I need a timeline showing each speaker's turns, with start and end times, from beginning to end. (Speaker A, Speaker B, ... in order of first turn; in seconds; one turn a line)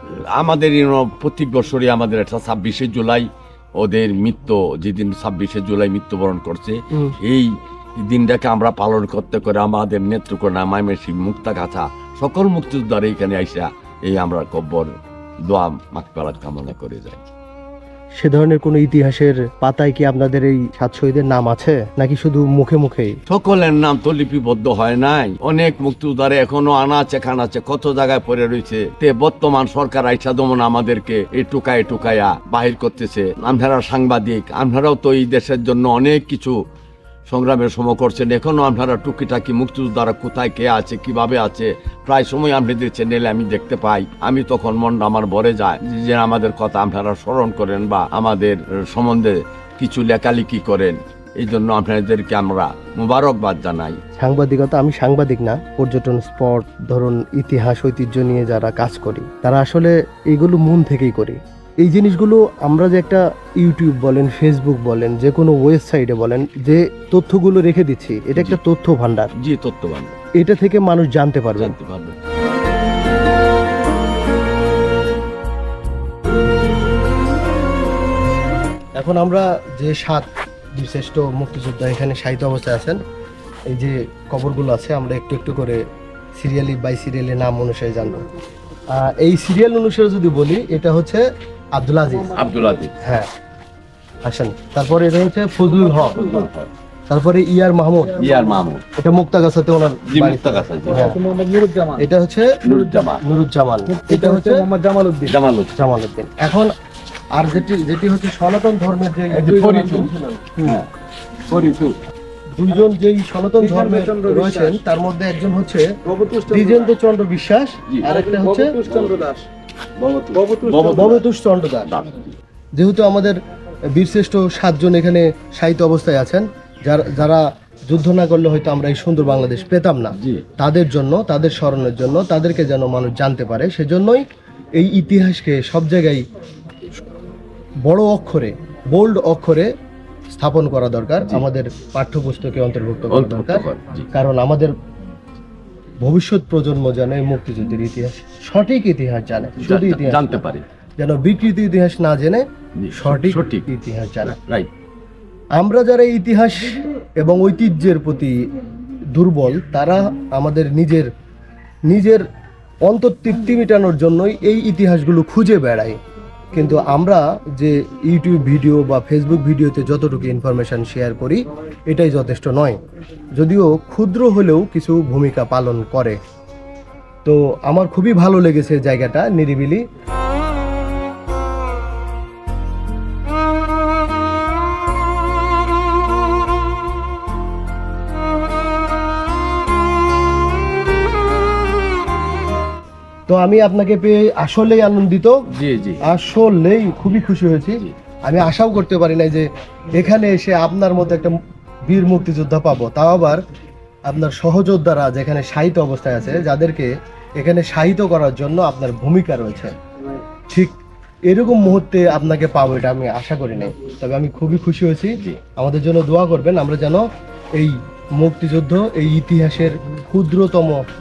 Speaker A: 0.1-14.9
Speaker A: 15.4-17.2
Speaker B: 18.2-23.2
Speaker A: 23.3-36.6
Speaker A: 37.3-54.0
Speaker B: 54.2-69.3
Speaker A: 69.4-70.2
Speaker B: 70.4-71.8
Speaker A: 71.6-72.2
Speaker B: 79.0-80.3
Speaker B: 80.8-83.0
Speaker B: 83.7-85.8
Speaker B: 86.4-88.2
Speaker B: 89.0-91.2
Speaker B: 91.8-92.3
Speaker A: 92.4-92.9
Speaker B: 94.3-96.3
Speaker A: 96.2-96.7
Speaker B: 97.1-98.2
Speaker A: 98.2-98.8
Speaker B: 99.0-101.2
Speaker A: 100.1-101.0
Speaker C: 101.0-102.0
Speaker B: 102.0-102.5
Speaker A: 102.7-103.2
Speaker B: 103.3-104.7
Speaker C: 103.9-105.3
Speaker A: 105.2-105.7
Speaker B: 105.8-106.7
Speaker B: 107.4-109.8
Speaker A: 109.5-110.1
Speaker C: 109.9-110.5
Speaker C: 111.5-111.9
Speaker B: 112.6-115.8
Speaker C: 113.6-114.8
Speaker C: 116.1-117.0
Speaker B: 116.5-118.8
Speaker C: 118.1-119.5
Speaker A: 120.0-121.0
Speaker C: 120.4-121.1
Speaker B: 120.8-121.9
Speaker A: 121.9-122.1
Speaker B: 122.8-123.4
Speaker B: 124.0-134.2
Speaker B: 134.8-136.2
Speaker B: 137.9-139.7
Speaker B: 140.3-144.7
Speaker A: 143.1-144.1
Speaker B: 146.0-150.3
Speaker A: 149.7-150.6
Speaker B: 151.0-154.4
Speaker A: 152.8-153.6
Speaker A: 154.3-154.7
Speaker B: 155.6-158.3
Speaker B: 159.2-161.1
Speaker B: 161.9-162.2
Speaker B: 162.9-166.0
Speaker B: 166.5-172.8
Speaker B: 173.4-176.2
Speaker B: 177.2-179.8
Speaker B: 193.3-195.4
Speaker A: 195.6-195.9
Speaker B: 196.1-201.3
Speaker B: 201.9-203.4
Speaker B: 204.1-209.7
Speaker B: 210.5-210.8
Speaker B: 211.3-217.1
Speaker B: 217.6-220.8